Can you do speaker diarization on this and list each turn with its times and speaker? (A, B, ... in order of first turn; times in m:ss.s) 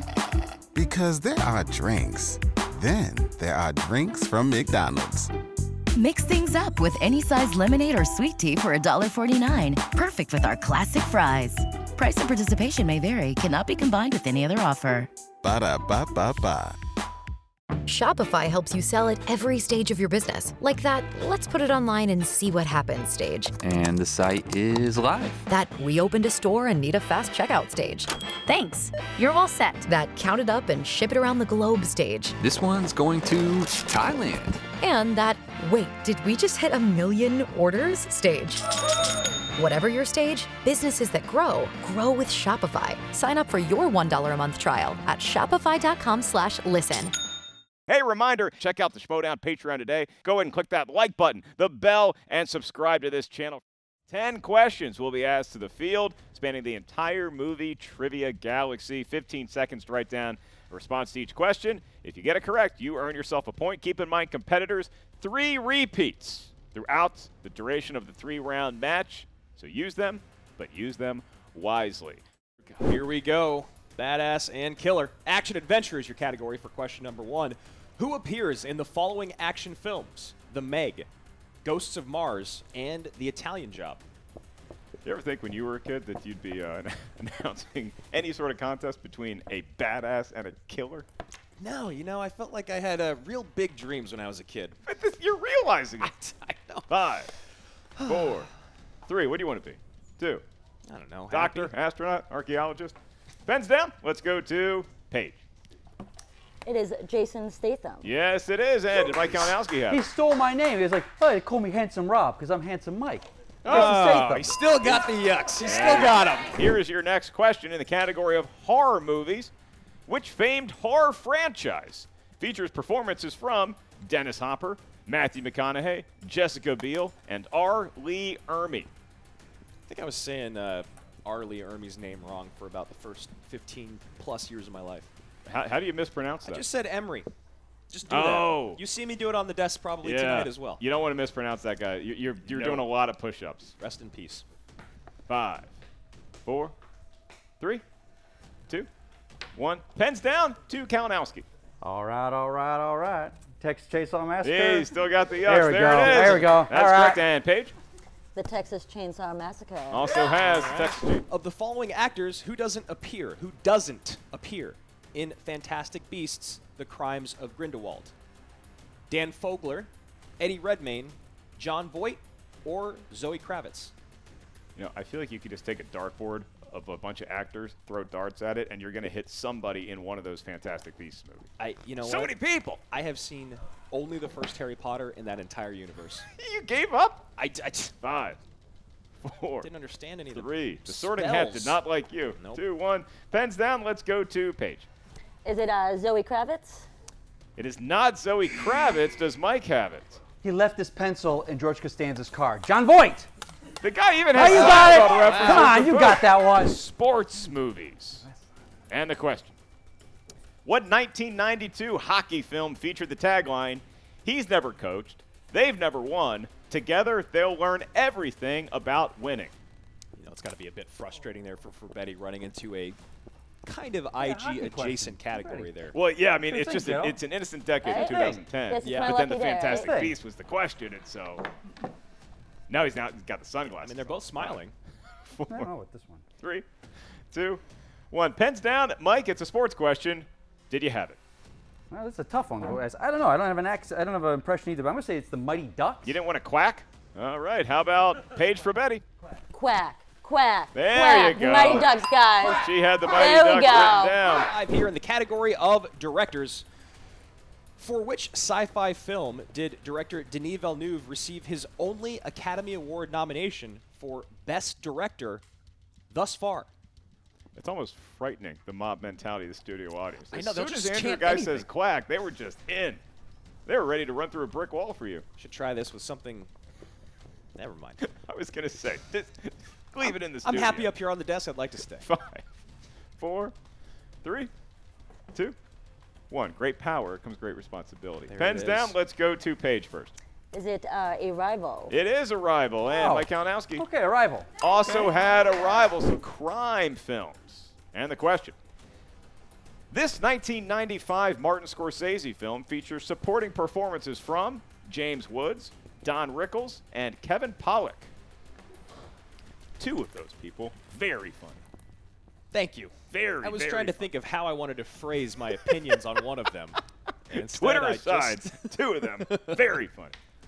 0:00.7-0:05.3 A
0:06.0-0:15.1 B
0:15.4-0:16.8 A
0:17.9-0:23.5 C
0:23.6-0:25.4 D
0:25.5-0:32.4 C
0:32.4-0:34.7 D
0:34.8-0:38.6 C
0:39.6-0:47.2 C
0:47.9-1:12.2 E
1:12.8-1:21.1 F
1:21.6-1:24.0 F
1:25.0-1:31.1 E
1:31.6-1:34.8 F
1:34.9-1:36.1 E
1:36.0-1:36.9 F
1:36.9-1:37.3 E
1:38.0-1:38.4 F
1:38.0-1:38.5 E
1:39.1-1:40.4 E
1:40.9-1:41.7 F
1:41.3-1:43.0 E
1:43.5-1:45.4 E
1:46.6-1:48.1 G
1:48.0-1:50.1 E
1:49.9-1:54.6 H
1:53.6-1:56.6 F
1:53.7-1:54.1 E
1:55.6-1:59.5 E
2:00.1-2:08.9 E
2:09.9-2:15.1 F
2:15.5-2:16.6 E
2:16.4-2:17.3 F
2:17.9-2:20.8 F
2:18.1-2:18.8 E
2:20.0-2:23.8 E
2:22.4-2:22.9 F
2:23.8-2:24.4 F
2:25.3-2:25.7 E
2:26.5-2:26.8 E
2:29.6-2:31.5 E
2:31.8-2:34.9 H
2:34.4-2:37.7 E
2:35.4-2:37.2 H
2:38.4-2:40.1 G
2:39.9-2:41.2 E
2:40.4-2:48.1 F
2:49.1-2:53.9 F
2:54.8-3:01.5 E
3:01.6-3:02.4 F
3:02.0-3:02.8 E
3:02.9-3:06.3 F
3:06.4-3:07.3 E
3:07.4-3:07.9 F
3:08.0-3:08.4 E
3:09.2-3:09.7 E
3:09.6-3:12.6 F
3:10.3-3:14.9 E
3:15.4-3:16.9 G
3:17.6-3:20.2 E
3:20.4-3:23.3 H
3:23.8-3:28.2 E
3:24.3-3:26.8 H
3:24.4-3:25.7 F
3:28.9-3:29.6 E
3:30.6-3:39.5 E
3:40.2-3:43.0 F
3:43.6-3:46.0 F
3:44.2-3:45.7 H
3:45.9-3:51.5 E
3:46.4-3:47.2 H
3:47.8-3:50.0 G
3:47.9-3:48.5 H
3:48.8-3:49.2 F
3:49.7-3:50.2 H
3:52.7-3:54.6 E
3:53.8-3:54.7 F
3:55.2-3:55.7 E
3:55.5-3:56.3 H
3:56.4-3:56.7 E
3:57.3-4:01.2 E
4:01.9-4:06.2 H
4:06.0-4:09.0 E
4:09.5-4:14.2 G
4:10.7-4:14.5 E
4:13.8-4:16.7 F
4:17.8-4:25.4 F
4:26.1-4:26.7 F
4:27.6-4:33.0 E
4:30.3-4:31.7 F
4:33.7-4:35.2 E
4:35.4-4:36.5 F
4:37.6-4:38.0 F
4:38.0-4:40.9 E
4:40.0-4:42.1 F
4:42.0-4:42.4 E
4:43.2-4:43.5 E
4:44.2-4:44.5 E
4:46.3-4:50.2 E
4:48.3-4:49.0 F
4:50.5-4:52.0 G
4:51.9-4:53.8 E
4:53.0-4:55.1 H
4:54.6-4:58.6 E
4:59.9-5:08.1 E
5:09.8-5:11.6 E
5:12.5-5:19.6 F
5:13.1-5:14.1 E
5:17.3-5:20.2 E